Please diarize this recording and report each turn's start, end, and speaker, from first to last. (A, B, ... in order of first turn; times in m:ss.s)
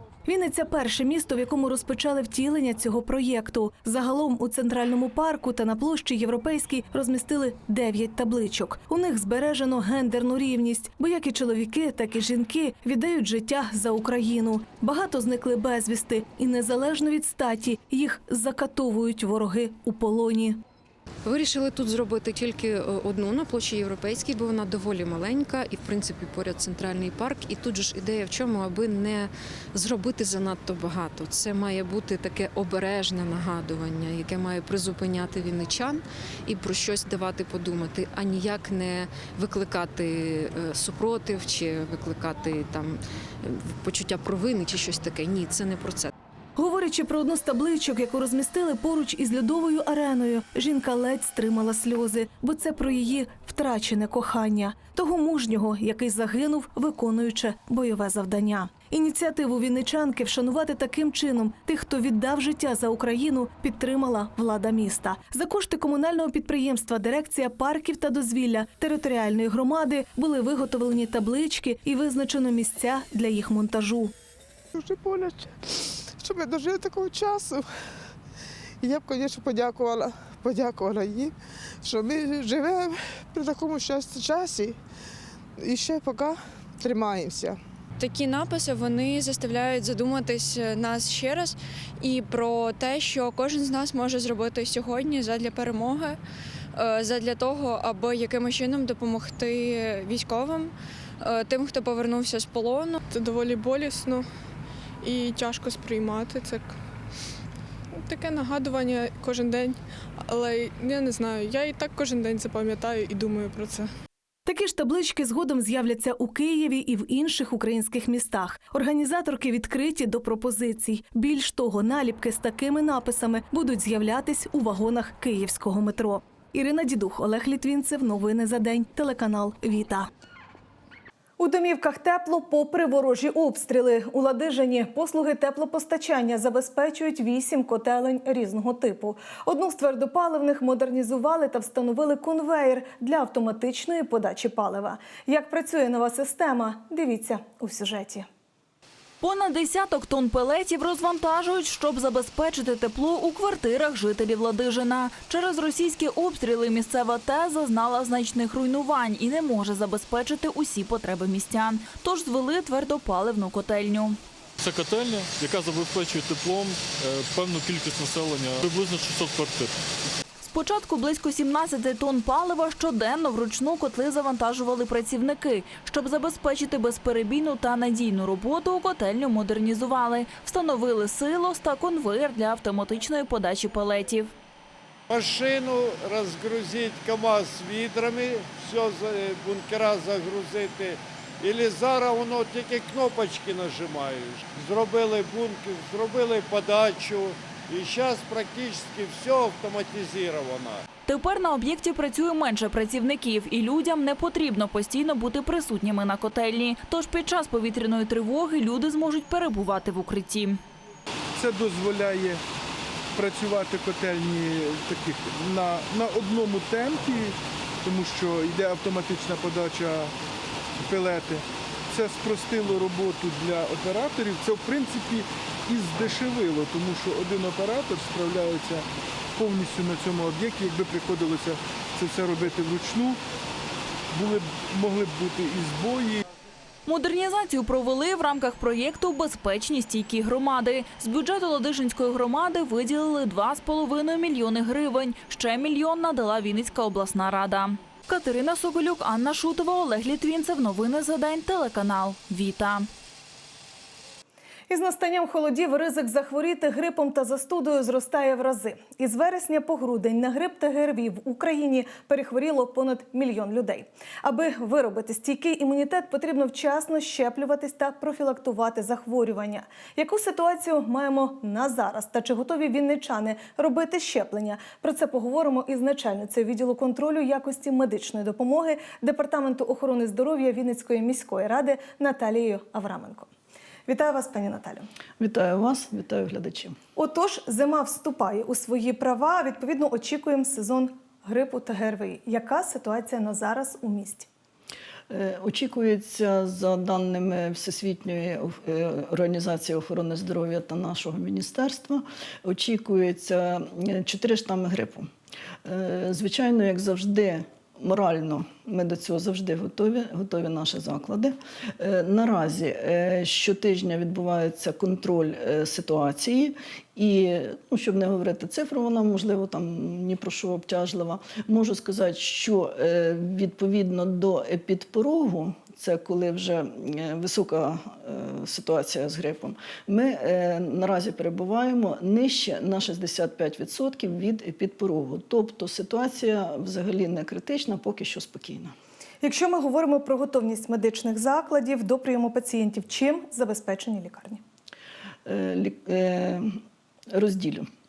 0:00.2-0:20.6 A
0:21.2-0:46.1 B
0:46.6-1:14.1 A
1:14.8-1:17.7 C
1:18.8-1:24.8 C
1:25.6-1:27.6 C
1:28.0-1:36.2 D
1:36.7-1:43.0 D
1:43.1-1:44.3 E
1:45.0-1:46.8 E
1:48.0-1:53.9 E
1:54.4-2:10.1 A
2:11.4-2:28.3 A
2:29.2-2:44.2 F
2:44.6-2:49.8 G
2:50.4-3:04.3 F
3:05.1-3:20.8 H
3:21.1-3:30.6 F
3:31.3-3:32.4 I
3:33.1-3:40.1 I
3:40.8-3:53.2 I
3:54.1-3:56.2 I
3:56.8-4:12.9 F
4:14.7-4:43.3 A
4:43.9-4:44.8 A
4:45.2-4:46.8 J
4:47.0-4:54.3 A
4:55.1-5:05.1 J
5:05.6-5:38.7 J
5:39.2-5:44.4 A
5:45.3-5:47.7 J